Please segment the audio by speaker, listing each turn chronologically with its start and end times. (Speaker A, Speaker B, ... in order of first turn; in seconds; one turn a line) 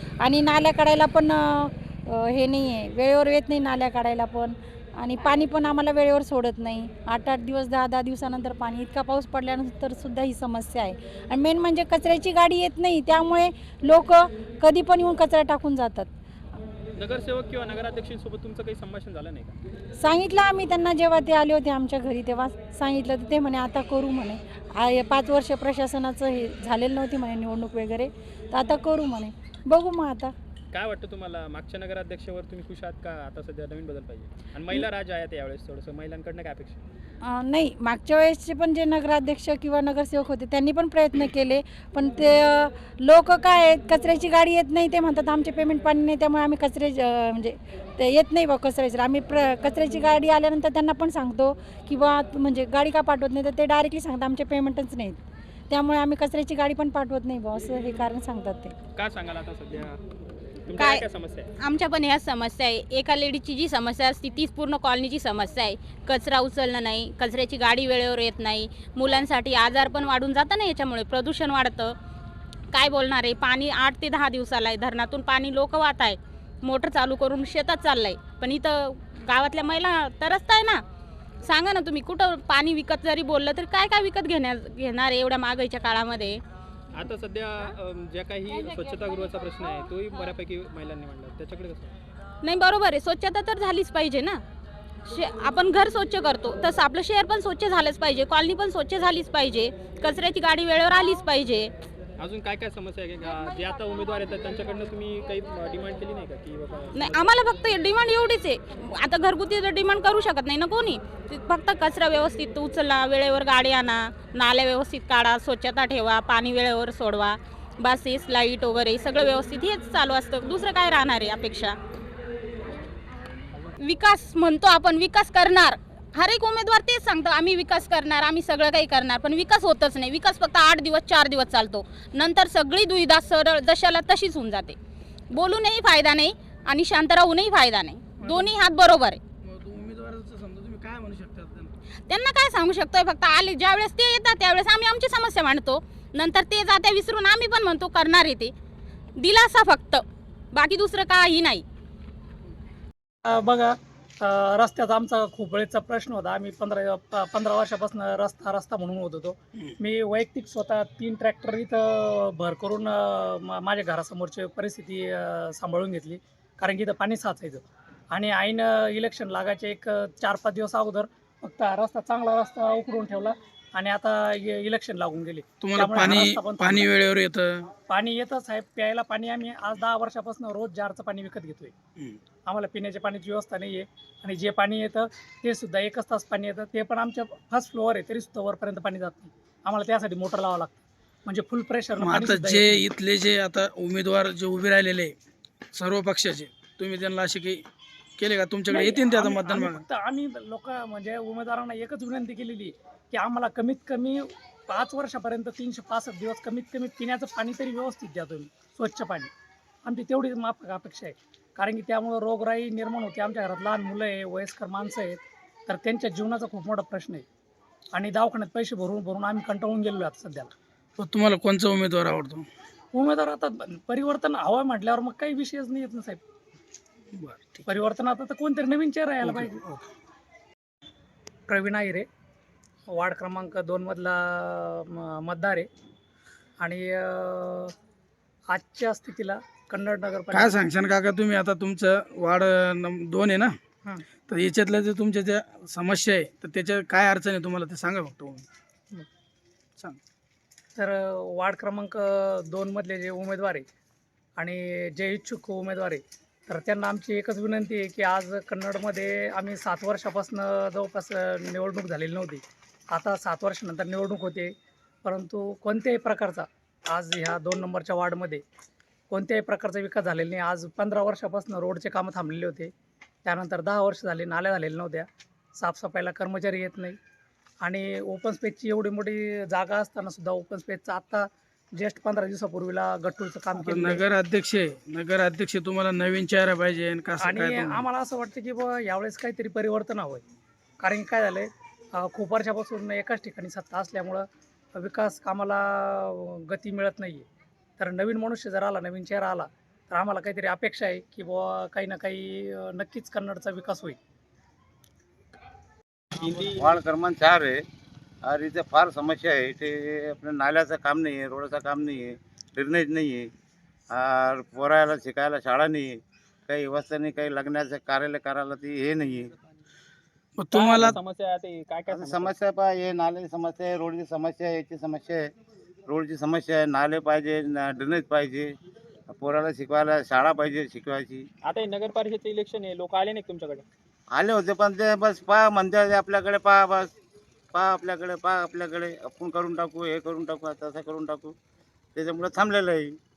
Speaker A: 0.2-16.1
Speaker B: 17.0-19.6
Speaker A: 20.0-30.3
Speaker B: 30.7-36.8
Speaker A: 37.2-58.8
Speaker B: 59.0-60.0
Speaker B: 60.7-61.5
Speaker C: 60.8-61.0
Speaker C: 61.6-72.0
Speaker C: 72.7-80.8
Speaker C: 81.4-86.4
Speaker B: 87.0-91.9
Speaker C: 92.4-94.4
Speaker C: 95.1-101.7
Speaker B: 102.2-107.4
Speaker C: 107.0-121.8
Speaker C: 123.8-134.8
Speaker C: 135.3-139.2
Speaker D: 138.2-138.5
Speaker D: 139.4-141.7
Speaker C: 142.1-148.5
Speaker C: 149.2-151.7
Speaker E: 153.2-176.9
Speaker D: 175.6-177.7
Speaker E: 177.9-181.7
Speaker E: 182.5-192.8
Speaker D: 192.0-195.2
Speaker D: 195.7-197.6
Speaker D: 198.2-199.8
Speaker E: 198.7-209.3
Speaker E: 209.8-217.2
Speaker E: 217.9-220.5
Speaker D: 221.0-222.5
Speaker E: 222.9-226.2
Speaker D: 227.2-227.7
Speaker E: 227.7-229.6
Speaker D: 229.2-229.9
Speaker E: 231.5-232.1
Speaker E: 232.9-235.7
Speaker E: 236.6-237.7
Speaker E: 238.5-240.6
Speaker D: 240.3-243.5
Speaker D: 244.3-248.5
Speaker E: 250.8-253.7
Speaker E: 254.4-268.4
Speaker E: 269.1-272.7
Speaker E: 273.2-277.0
Speaker E: 277.6-284.0
Speaker D: 283.6-287.9
Speaker E: 287.2-290.2
Speaker E: 290.8-297.3
Speaker E: 297.8-304.0
Speaker B: 306.1-306.8
Speaker F: 306.6-307.6
Speaker F: 308.2-313.3
Speaker F: 313.9-319.3
Speaker D: 320.4-321.0
Speaker B: 320.5-322.4
Speaker F: 321.9-325.3
Speaker F: 325.9-328.5
Speaker F: 329.1-331.3
Speaker B: 331.4-333.6
Speaker F: 334.1-336.9
Speaker F: 337.5-341.3
Speaker F: 342.0-343.0